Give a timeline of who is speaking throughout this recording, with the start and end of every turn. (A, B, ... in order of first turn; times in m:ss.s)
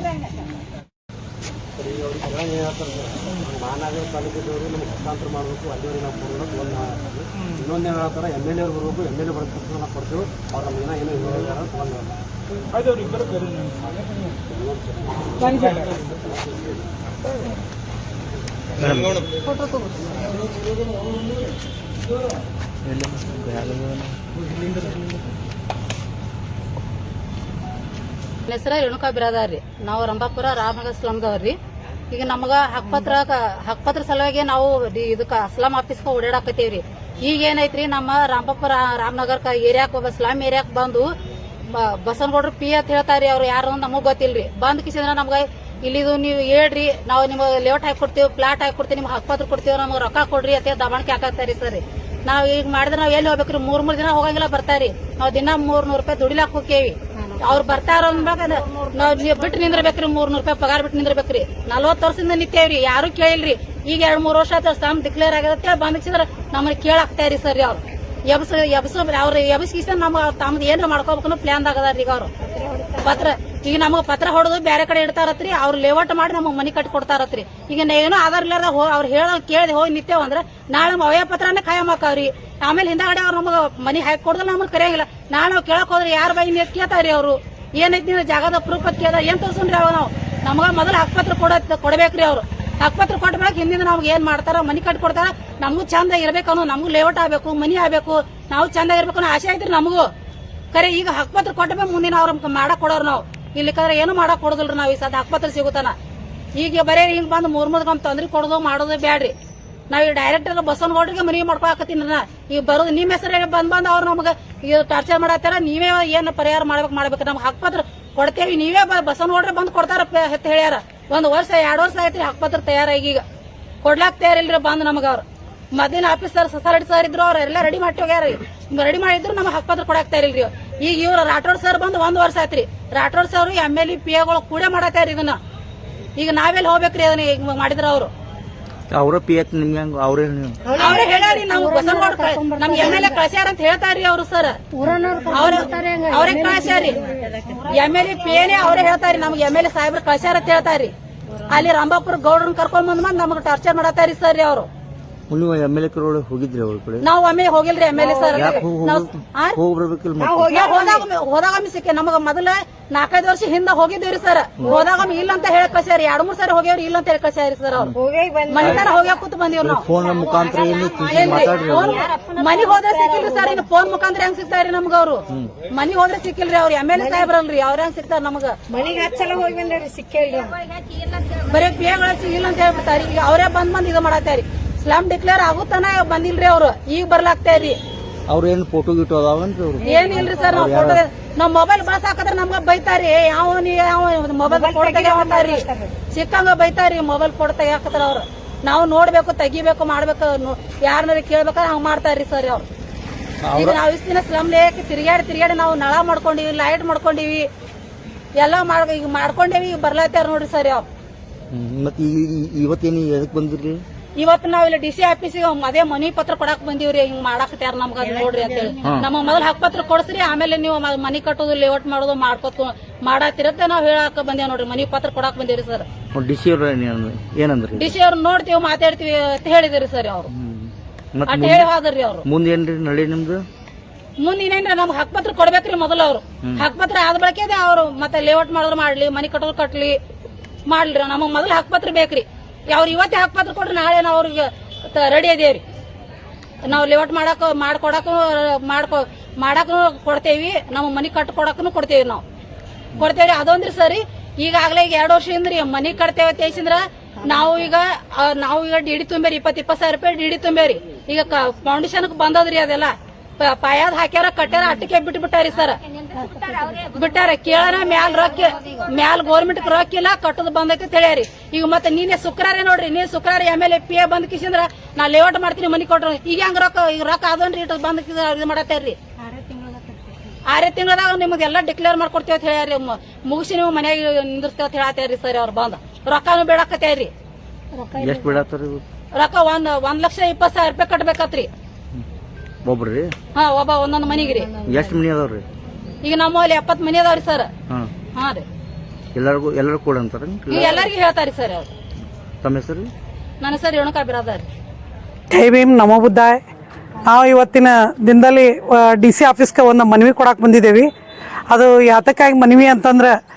0:01.8-0:12.1 A
0:14.5-0:15.9 A
0:18.8-0:19.2 B
0:22.8-0:24.1 B
0:28.5-0:31.6 C
0:32.1-0:41.1 C
0:41.6-1:12.3 C
0:57.2-0:57.5 D
0:58.6-0:59.0 D
1:12.5-1:13.1 D
1:13.0-1:40.1 C
1:40.7-1:46.0 C
1:46.6-1:49.3 C
1:49.9-2:03.2 C
2:03.8-2:15.4 C
2:16.2-2:18.1 C
2:18.9-2:20.6 B
2:20.6-2:23.2 D
2:20.8-2:24.6 C
2:24.7-2:27.8 D
2:25.3-2:27.0 C
2:27.7-2:30.9 C
2:31.5-2:34.7 C
2:35.3-2:37.0 B
2:37.0-2:39.6 C
2:38.0-2:38.6 D
2:38.3-2:40.5 B
2:40.2-2:41.0 D
2:40.4-2:47.9 C
2:47.9-2:48.9 D
2:48.5-2:49.9 C
2:49.6-2:52.1 B
2:51.1-2:58.6 C
2:51.4-2:53.6 D
2:56.9-2:57.3 D
2:58.7-3:00.7 D
3:01.4-3:07.8 C
3:08.3-3:11.0 B
3:09.8-3:10.7 D
3:09.8-3:22.6 C
3:14.5-3:16.0 D
3:23.4-3:23.8 B
3:23.5-3:27.5 C
3:28.4-3:30.9 C
3:31.5-3:33.8 B
3:34.2-3:45.9 C
3:38.8-3:39.1 B
3:46.1-3:47.9 B
3:47.7-3:50.3 C
3:50.3-3:51.7 B
3:51.3-3:52.2 C
3:52.2-3:53.4 B
3:54.2-4:00.0 C
4:00.7-4:05.6 C
4:06.6-4:12.2 C
4:13.0-4:25.8 C
4:26.6-4:39.0 C
4:39.2-4:40.1 D
4:40.5-4:47.1 C
4:47.7-4:48.4 D
4:47.9-4:48.8 B
4:49.1-4:51.5 C
4:52.6-4:53.1 B
4:53.3-4:54.5 C
4:54.2-4:54.9 D
4:54.6-4:55.4 B
4:56.0-4:57.5 C
4:58.1-4:58.4 C
4:59.1-5:00.9 B
5:00.5-5:01.7 C
5:02.4-5:02.9 B
5:03.4-5:04.5 C
5:05.3-5:06.4 E
5:07.0-5:10.9 E
5:11.5-5:13.1 E